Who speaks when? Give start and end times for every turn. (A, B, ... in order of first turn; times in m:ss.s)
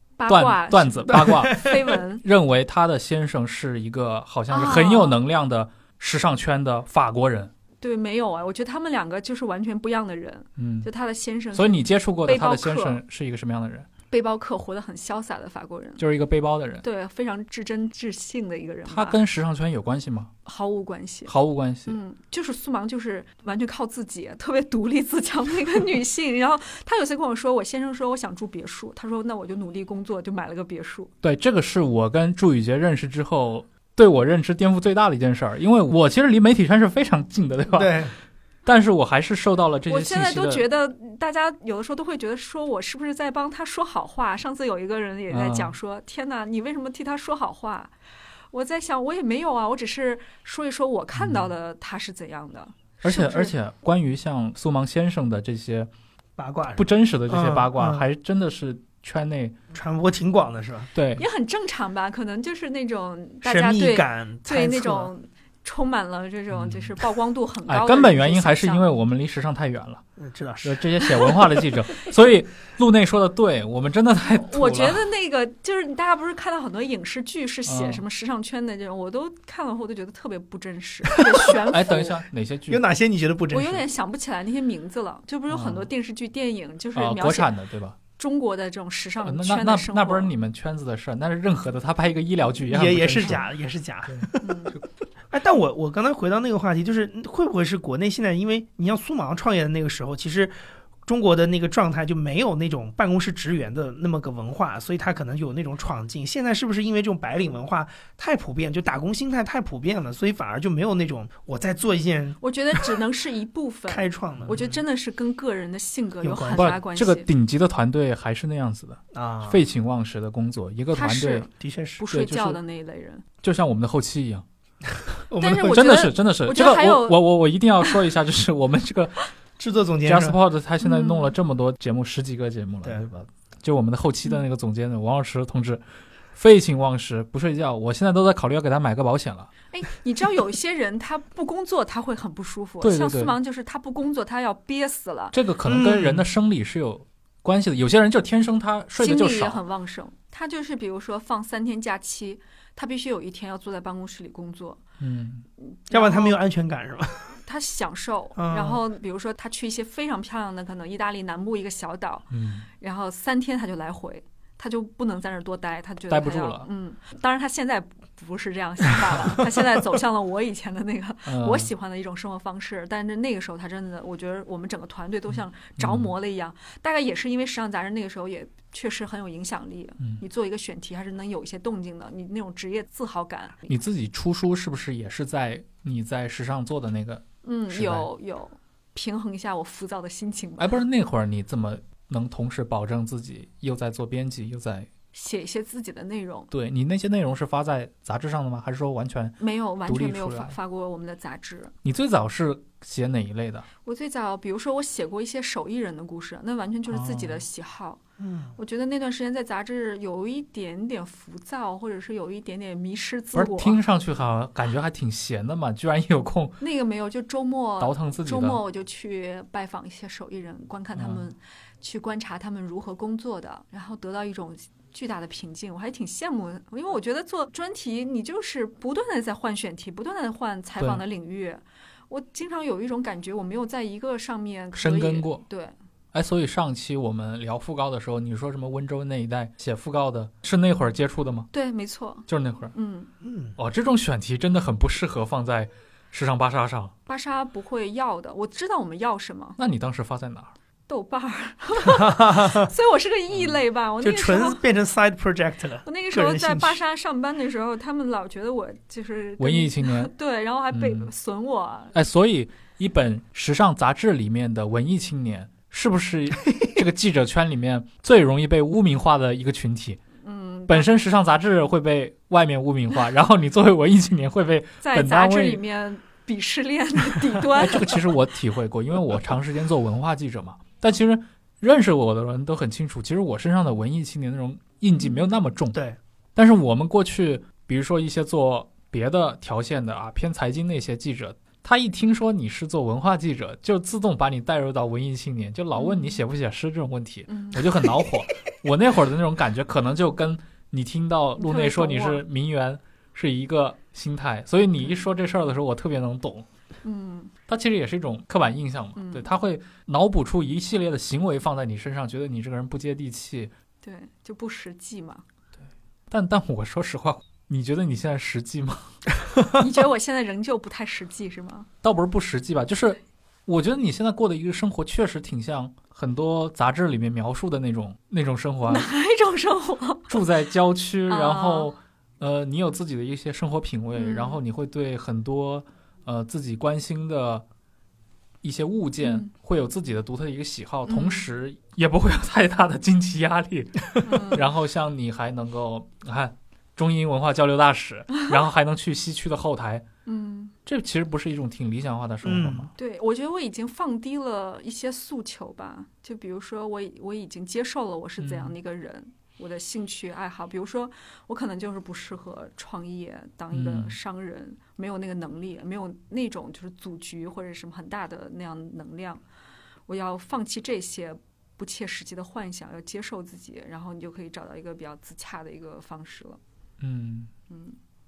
0:00.2-0:02.2 A
0:00.3-0:07.5 B
0:01.2-0:01.7 C
0:04.5-0:05.2 A
0:07.8-0:13.0 A
0:10.6-0:10.9 B
0:11.5-0:13.9 B
0:14.1-0:16.0 A
0:16.0-0:16.8 B
0:16.8-0:19.2 A
0:18.9-0:20.3 B
0:20.5-0:21.3 A
0:21.3-0:22.0 B
0:21.9-0:31.1 A
0:31.2-0:38.1 B
0:37.7-0:38.1 C
0:38.6-0:40.6 B
0:39.9-0:47.9 A
0:45.3-0:45.7 B
0:48.5-0:53.5 A
0:51.1-0:51.5 B
0:53.0-0:55.9 B
0:56.4-0:58.0 C
0:56.8-0:59.6 B
0:59.7-1:00.9 C
1:01.0-1:01.2 B
1:01.2-1:08.9 A
1:03.4-1:05.1 C
1:06.5-1:07.0 B
1:07.7-1:10.0 B
1:10.2-1:11.5 C
1:10.6-1:15.0 B
1:14.3-1:22.2 A
1:17.7-1:18.0 B
1:21.3-1:21.5 C
1:21.6-1:22.8 B
1:22.7-1:23.8 C
1:23.5-1:27.5 A
1:25.5-1:25.9 B
1:27.0-1:28.0 B
1:28.2-1:30.3 A
1:29.2-1:33.5 B
1:32.7-1:34.5 C
1:34.4-1:34.8 A
1:35.3-1:40.5 C
1:41.0-1:52.9 C
1:52.4-1:57.3 A
1:53.9-1:54.8 C
1:56.2-1:56.7 C
1:56.5-2:01.5 B
1:59.1-1:59.6 C
2:00.9-2:03.2 A
2:01.6-2:02.0 C
2:02.1-2:02.6 B
2:03.4-2:04.4 B
2:05.3-2:05.9 C
2:05.4-2:07.2 A
2:05.5-2:09.2 B
2:09.6-2:10.4 C
2:10.0-2:15.8 B
2:10.8-2:11.3 A
2:16.3-2:19.5 B
2:19.7-2:25.4 A
2:22.8-2:23.3 B
2:25.3-2:29.6 B
2:25.6-2:26.2 C
2:29.0-2:34.8 A
2:35.0-2:35.4 B
2:35.6-2:36.4 A
2:35.9-2:37.4 C
2:37.4-3:03.7 A
2:38.4-2:38.8 C
2:42.3-2:42.7 B
2:46.1-2:46.7 B
2:51.3-2:51.7 B
2:55.8-2:56.1 B
3:03.7-3:08.1 B
3:07.4-3:10.7 A
3:10.6-3:14.9 B
3:15.1-3:16.5 A
3:16.5-3:20.6 B
3:19.4-3:21.7 A
3:21.8-3:23.7 B
3:23.8-3:28.0 A
3:26.9-3:27.4 B
3:28.2-3:28.6 C
3:28.6-3:33.8 A
3:33.3-3:36.6 B
3:36.6-3:55.8 A
3:37.8-3:38.6 B
3:41.0-3:41.2 B
3:54.8-3:55.4 B
3:56.1-4:01.5 B
4:01.5-4:03.1 A
4:02.3-4:02.7 B
4:03.2-4:03.6 C
4:03.6-4:06.9 B
4:07.1-4:09.6 A
4:09.6-4:10.5 B
4:10.9-4:14.6 A
4:11.8-4:12.7 C
4:14.0-4:16.8 C
4:15.8-4:22.0 A
4:19.4-4:20.1 B
4:20.7-4:21.1 B
4:21.9-4:30.0 B
4:30.2-4:30.9 A
4:30.7-4:35.6 B
4:34.8-4:38.1 A
4:37.3-4:45.8 B
4:45.0-4:45.3 A
4:46.4-5:06.5 B
4:55.8-4:56.2 A
4:57.3-4:57.7 A
5:01.4-5:02.2 A
5:06.8-5:07.3 A
5:07.5-5:13.5 B
5:09.0-5:09.3 A
5:13.8-5:15.2 A
5:16.1-5:19.0 B
5:19.6-5:21.7 A
5:21.8-5:28.9 B
5:28.7-5:30.2 A
5:30.1-5:37.4 B
5:31.1-5:31.7 A
5:34.0-5:34.4 A
5:38.4-5:49.9 B
5:39.0-5:39.3 A
5:40.9-5:41.3 A
5:44.0-5:44.5 A
5:50.1-5:50.6 A
5:50.7-5:52.7 B
5:52.2-5:52.7 C
5:52.8-6:09.2 A
5:58.2-5:58.5 B
6:03.5-6:04.0 B
6:09.9-6:16.4 A
6:16.8-6:17.3 B
6:17.5-6:17.8 A